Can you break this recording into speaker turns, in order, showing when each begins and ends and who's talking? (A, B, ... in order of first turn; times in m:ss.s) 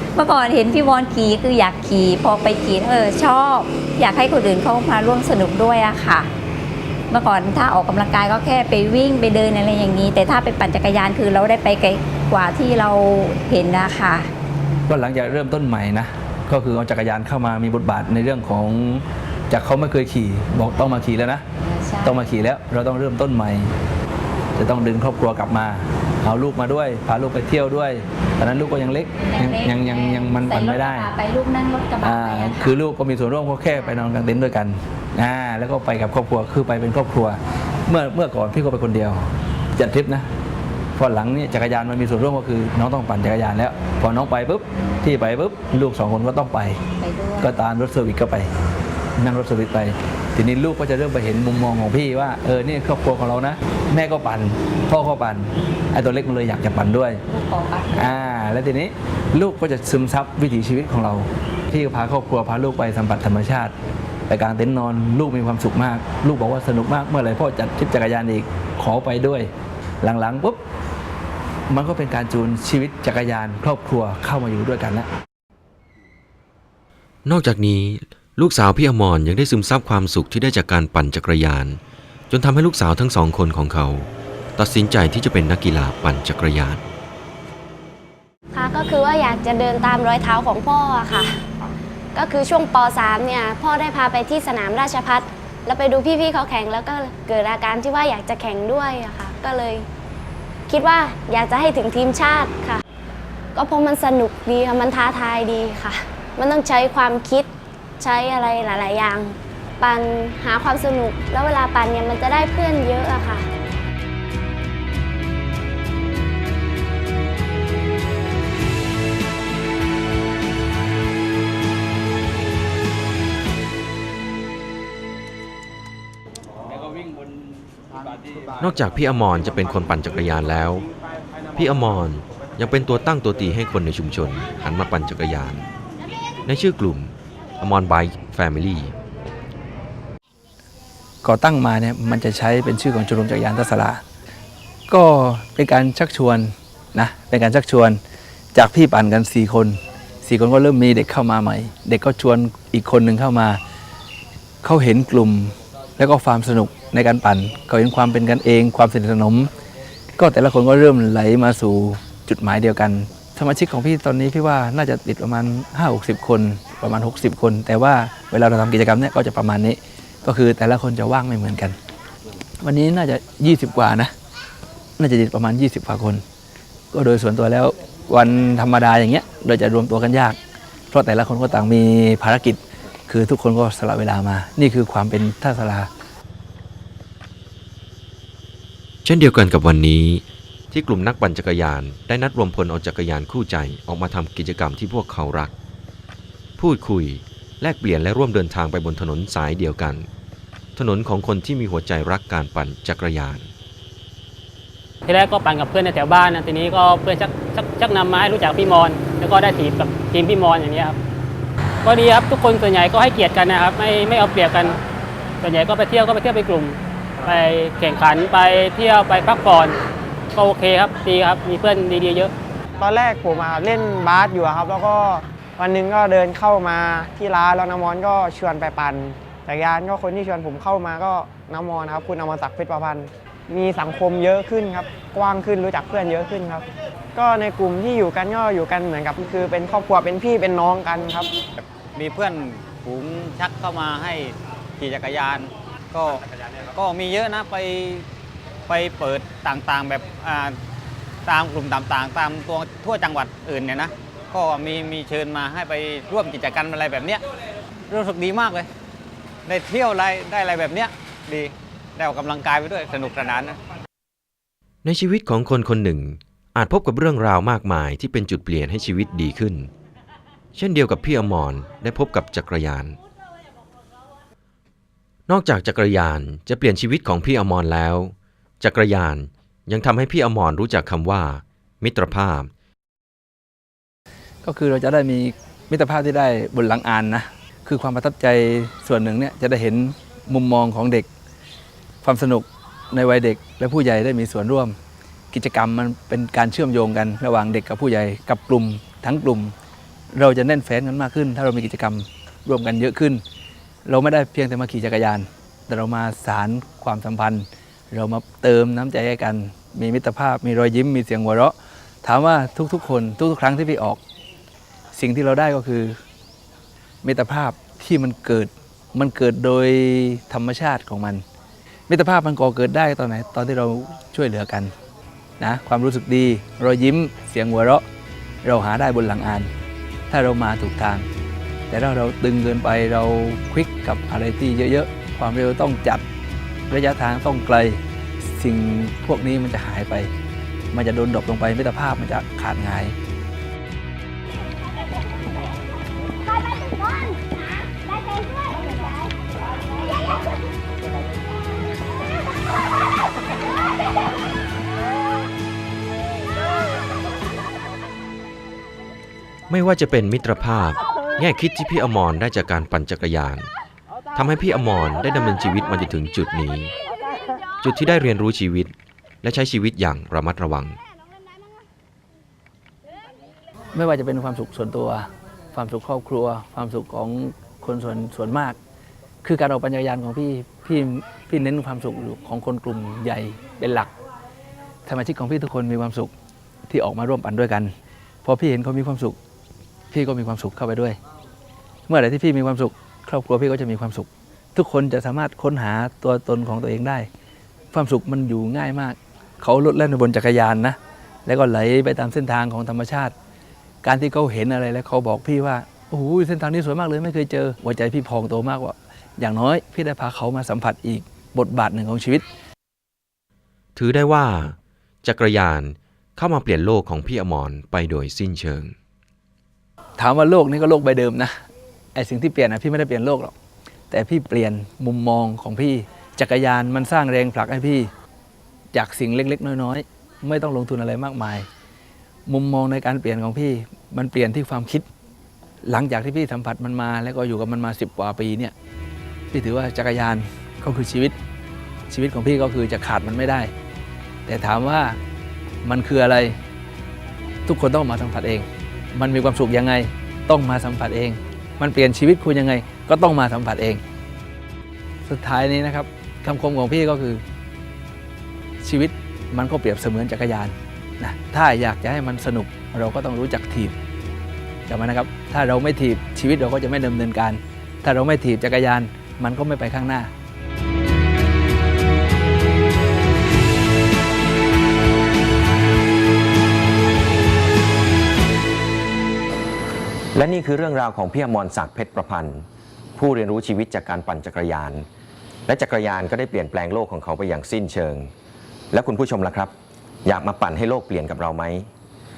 0:00.2-0:06.3 A
0:07.1-0:14.3 A
0:14.9-0:21.4 B
0:21.6-0:22.2 A
0:22.0-0:23.7 B
0:24.6-0:31.1 B
0:29.2-0:32.8 A
0:32.0-0:40.2 B
0:40.9-0:46.8 B
0:47.0-0:47.5 A
0:47.4-0:48.5 B
0:49.2-0:57.2 B
0:57.3-0:58.1 A
0:57.9-1:03.7 B
1:04.3-1:09.5 B
1:10.0-1:10.6 B
1:11.7-1:15.1 B
1:17.2-1:21.8 C
1:22.3-1:26.8 C
1:28.5-1:31.3 D
1:32.1-1:39.8 D
1:40.7-1:42.8 D
1:43.6-1:47.5 D
1:48.0-1:53.4 D
2:08.6-2:10.8 C
2:11.6-2:15.6 C
2:16.4-2:18.9 C
2:21.2-2:24.0 B
2:24.9-2:28.0 B
2:28.5-2:33.6 B
2:34.6-2:39.5 B
2:40.2-2:51.8 B
2:52.6-2:54.1 B
2:55.0-2:56.2 B
2:56.9-3:00.4 B
3:00.9-3:05.9 B
3:09.0-3:15.5 C
3:16.6-3:20.0 C
3:20.8-3:23.5 C
3:25.1-3:31.0 E
3:31.8-3:34.8 E
3:35.4-3:39.8 E
3:40.3-3:42.3 E
3:42.8-4:01.3 F
4:02.0-4:06.2 G
4:06.7-4:08.0 G
4:08.7-4:10.5 G
4:11.2-4:17.2 G
4:17.9-4:18.7 G
4:19.5-4:23.6 G
4:24.8-4:29.7 C
4:30.6-4:33.0 C
4:35.3-4:42.5 C
4:44.4-4:51.1 B
4:52.0-4:54.7 B
4:55.3-4:59.5 B
5:00.1-5:03.2 B
5:03.8-5:14.0 B
5:14.9-5:16.0 B
5:17.0-5:21.2 B
5:21.9-5:24.7 B
5:25.4-5:27.8 B
5:28.4-5:29.5 B
5:30.1-5:31.0 B
5:31.7-5:36.0 B
5:36.7-5:40.1 B
5:40.7-5:42.9 B
5:59.5-6:03.5 C
6:04.1-6:06.7 C
6:07.6-6:08.7 C
6:09.2-6:10.8 C
6:13.7-6:18.6 B
6:19.2-6:23.9 B
6:24.8-6:26.1 B
6:26.7-6:27.7 B
6:28.2-6:29.2 B
6:29.9-6:31.0 B
6:31.9-6:37.1 B
6:37.7-6:43.1 B
6:43.8-6:52.2 B
6:53.8-6:58.7 C
7:00.0-7:01.3 B
7:01.9-7:03.3 B
7:03.9-7:07.9 B
7:08.7-7:11.5 B
7:12.3-7:14.9 B
7:15.6-7:18.5 B
7:19.3-7:21.1 B
7:21.9-7:23.5 B
7:24.2-7:25.0 B
7:25.6-7:26.4 B
7:27.4-7:33.8 B
7:35.0-7:37.2 B
7:38.6-7:43.7 B
7:44.7-7:50.1 B
8:00.1-8:02.4 H
8:03.0-8:04.8 H
8:05.5-8:08.1 H
8:08.7-8:09.5 H
8:10.0-8:11.7 H